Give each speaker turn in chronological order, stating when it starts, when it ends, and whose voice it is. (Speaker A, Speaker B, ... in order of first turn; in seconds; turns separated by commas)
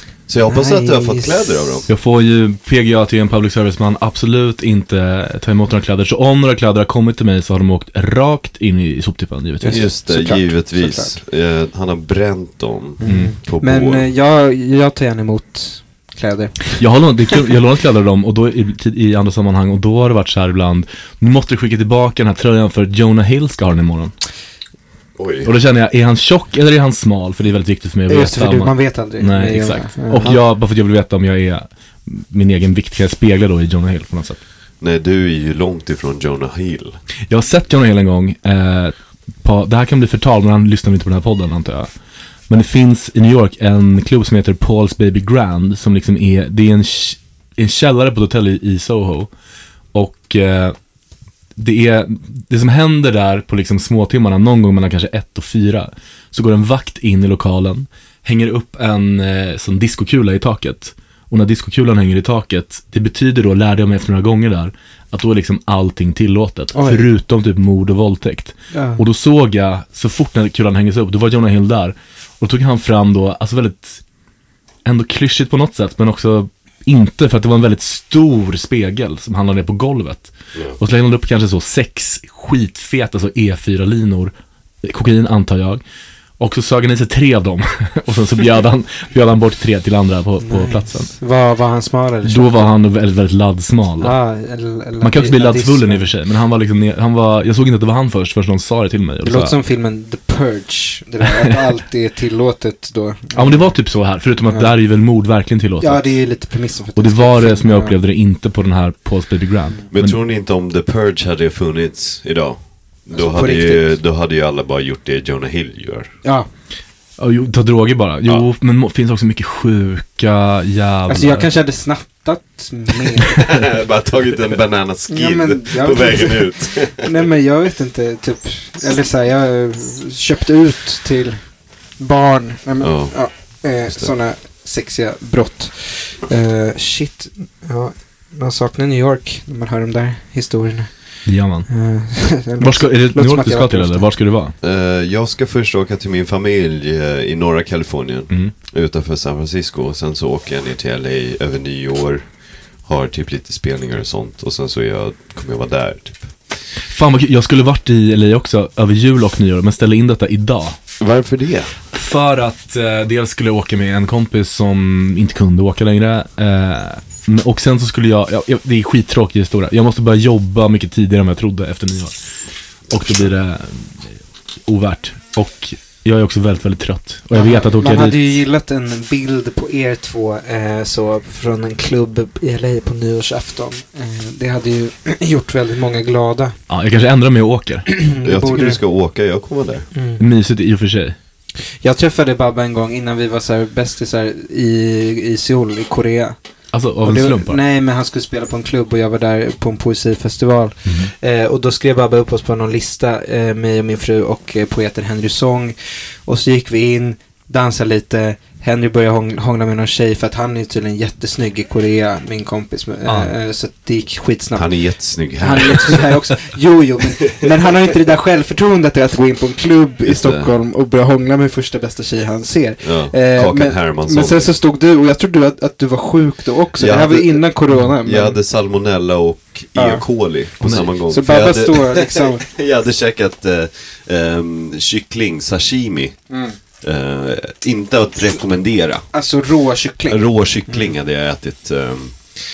Speaker A: 0.3-1.9, Speaker B: 0.4-1.4, Speaker C: 1.9-9.9, Speaker B: 9.6-11.2, Speaker A: 9.7-14.1, Speaker B: 13.0-16.8, Speaker C: 13.0-13.3, Speaker C: 16.8-24.1, Speaker A: 25.2-25.5, Speaker C: 25.4-34.4, Speaker B: 28.1-30.2, Speaker A: 30.2-30.4, Speaker A: 34.8-37.0, Speaker C: 37.3-41.9, Speaker C: 42.5-49.3, Speaker C: 49.9-50.7, Speaker C: 51.6-74.0, Speaker B: 66.7-67.1, Speaker B: 68.7-69.0, Speaker C: 74.8-85.8, Speaker C: 86.4-91.1, Speaker B: 90.4-92.7, Speaker C: 92.2-94.1, Speaker B: 94.0-96.0, Speaker C: 95.0-99.5, Speaker B: 99.2-103.7, Speaker C: 103.3-106.2, Speaker B: 105.8-107.9, Speaker C: 107.0-110.2, Speaker A: 109.9-116.1, Speaker B: 113.1-113.8, Speaker C: 117.2-121.5, Speaker B: 121.1-123.5, Speaker A: 123.3-127.1, Speaker B: 125.1-131.4, Speaker B: 132.0-140.9, Speaker A: 132.8-133.2, Speaker C: 141.2-141.7, Speaker B: 141.7-144.1, Speaker C: 142.6-144.5, Speaker A: 144.6-152.2, Speaker A: 152.8-156.3, Speaker C: 156.9-160.8, Speaker A: 161.0-161.7, Speaker C: 161.9-172.1, Speaker C: 172.9-178.4, Speaker A: 172.9-173.3, Speaker B: 177.3-186.5, Speaker C: 186.7-187.9, Speaker B: 187.9-188.8, Speaker A: 188.2-189.9, Speaker B: 189.9-190.2, Speaker C: 190.2-191.2, Speaker B: 191.8-196.4, Speaker C: 196.7-197.6, Speaker B: 197.0-214.8, Speaker C: 200.8-201.1, Speaker C: 213.1-213.3, Speaker A: 214.5-216.2, Speaker B: 215.3-228.4, Speaker A: 220.0-220.5, Speaker A: 222.8-224.5, Speaker A: 226.8-227.5, Speaker A: 228.0-236.2, Speaker B: 229.8-230.0, Speaker C: 230.6-230.9, Speaker B: 231.1-232.4, Speaker B: 236.3-236.6, Speaker A: 236.8-239.1, Speaker B: 239.1-240.9, Speaker A: 240.1-242.4